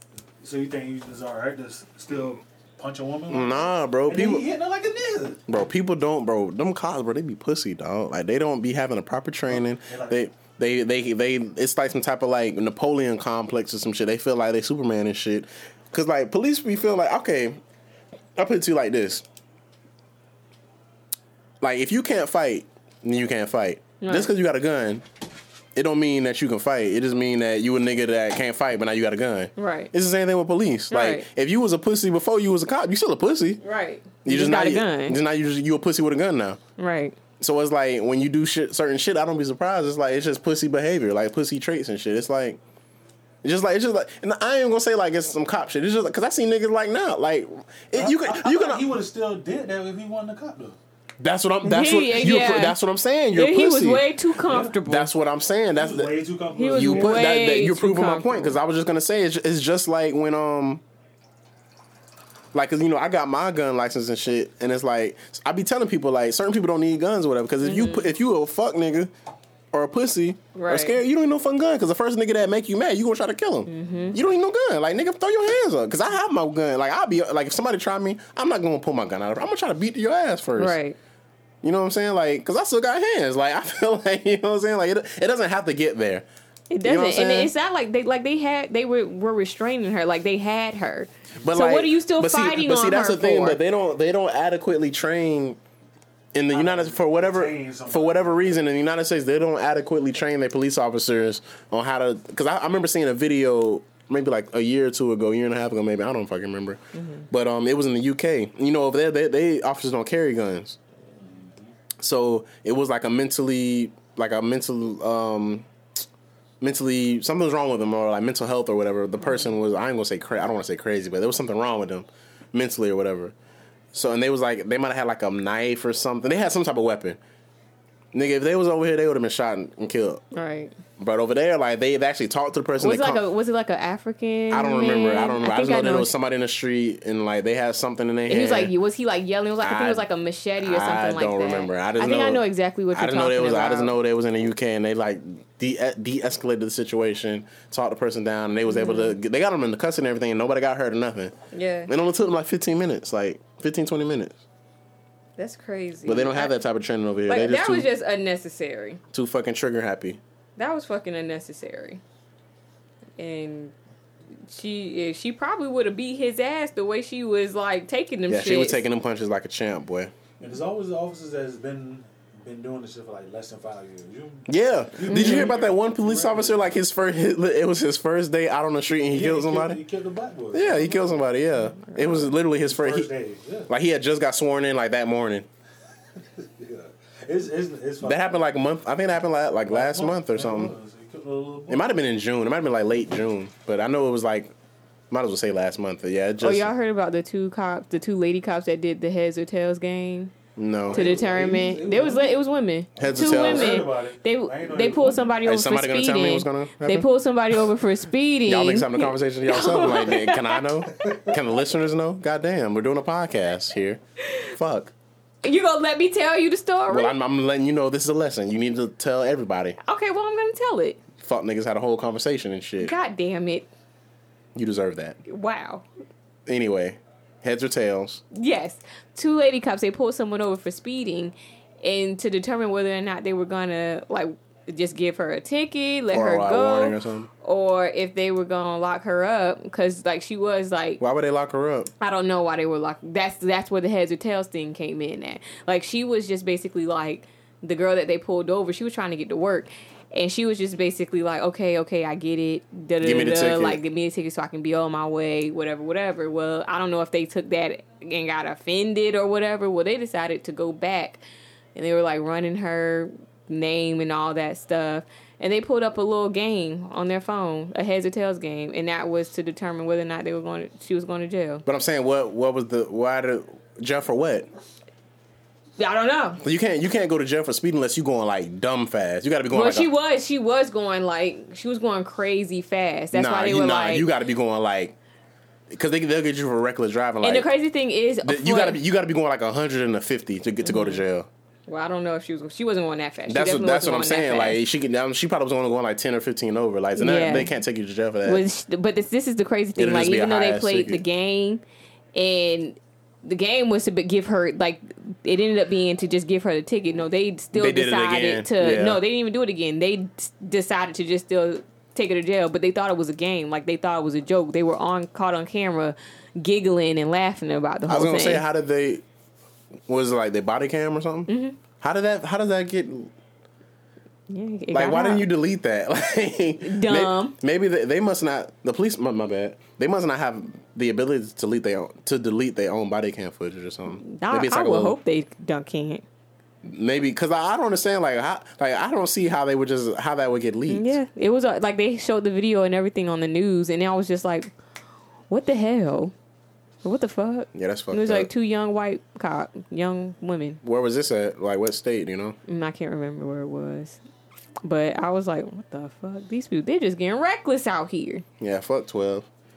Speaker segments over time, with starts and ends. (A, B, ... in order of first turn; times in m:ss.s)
0:00.4-0:05.4 A
0:03.3-0:04.4 B
0:05.5-0:17.6 B
0:09.5-0:10.2 A
0:18.4-0:19.2 B
0:21.6-0:25.0 B
0:24.0-0:24.3 C
0:25.7-0:33.6 B
0:29.6-0:29.9 C
0:30.9-0:31.3 C
0:33.6-0:35.2 C
0:34.2-0:36.6 B
0:36.8-0:37.2 C
0:37.4-0:42.6 B
0:43.4-0:48.9 B
0:47.9-0:50.8 A
0:51.2-0:54.0 B
0:51.6-0:52.8 C
0:53.3-0:55.1 C
0:54.4-0:54.8 A
0:54.8-0:56.2 B
0:55.7-0:57.3 A
0:56.5-0:58.6 C
0:56.7-1:00.8 B
1:02.5-1:09.1 B
1:07.6-1:08.1 C
1:09.7-1:20.8 B
1:10.5-1:11.0 C
1:13.7-1:14.2 C
1:20.6-1:21.0 C
1:21.6-1:26.2 B
1:26.7-1:33.6 C
1:26.8-1:27.5 B
1:31.4-1:35.6 B
1:36.3-1:50.8 B
1:36.5-1:38.6 A
1:46.9-1:47.2 C
1:51.2-1:51.6 A
1:52.0-1:55.7 B
1:56.6-2:03.3 B
2:03.9-2:07.2 B
2:08.1-2:10.2 B
2:10.3-2:10.7 C
2:11.0-2:13.2 B
2:12.8-2:16.1 C
2:14.5-2:18.7 B
2:18.3-2:23.9 C
2:19.6-2:20.0 B
2:20.6-2:31.3 B
2:28.7-2:29.2 C
2:31.5-2:31.9 C
2:31.9-2:34.4 B
2:35.4-2:36.5 C
2:36.0-2:37.9 B
2:37.3-2:39.0 C
2:39.1-2:40.2 B
2:40.6-2:42.0 C
2:43.2-2:43.7 C
2:44.5-2:48.8 C
2:48.3-2:50.1 B
2:50.4-2:56.8 A
2:54.5-2:59.8 B
2:55.1-2:55.5 C
2:59.1-3:01.2 A
3:00.5-3:03.1 B
3:01.6-3:02.3 C
3:02.4-3:03.7 A
3:03.7-3:05.4 B
3:06.2-3:08.4 A
3:08.0-3:10.7 B
3:09.7-3:11.9 A
3:11.7-3:14.5 B
3:15.1-3:16.7 B
3:16.4-3:20.3 C
3:20.6-3:21.0 B
3:20.9-3:22.4 A
3:20.9-3:30.6 C
3:23.0-3:25.3 A
3:23.0-3:23.8 B
3:25.4-3:27.1 B
3:28.5-3:34.9 B
3:31.0-3:31.4 A
3:35.4-3:37.1 C
3:36.9-3:39.8 B
3:39.8-3:41.0 C
3:41.2-3:42.9 B
3:42.8-3:43.7 C
3:44.5-3:45.2 B
3:45.2-3:45.8 C
3:46.4-3:48.2 B
3:48.3-4:01.0 C
3:56.1-3:57.3 B
4:01.0-4:01.9 B
4:02.0-4:21.2 C
4:13.0-4:13.8 B
4:21.7-4:31.6 C
4:31.6-4:34.5 B
4:35.8-4:36.4 C
4:36.4-4:39.9 B
4:39.5-4:44.1 C
4:43.1-4:45.0 B
4:45.7-4:47.5 B
4:47.2-4:48.8 C
4:48.2-4:51.3 B
4:50.6-4:51.0 C
4:51.7-4:54.6 C
4:53.3-4:58.4 B
4:57.0-4:57.5 C
4:58.2-5:01.6 C
4:59.8-5:01.0 B
5:02.1-5:18.4 C
5:07.5-5:09.0 B
5:17.9-5:19.0 B
5:19.9-5:21.3 B
5:21.3-5:21.6 C
5:21.8-5:23.1 B
5:24.3-5:25.2 C
5:24.7-5:35.0 B
5:26.6-5:27.4 C
5:34.0-5:36.0 C
5:36.6-5:41.0 B
5:40.7-5:44.5 C
5:45.3-5:46.1 C
5:46.8-5:50.6 C
5:47.5-5:48.3 B
5:50.6-5:52.4 B
5:52.5-5:54.0 C
5:54.6-5:58.2 C
5:58.4-5:59.3 B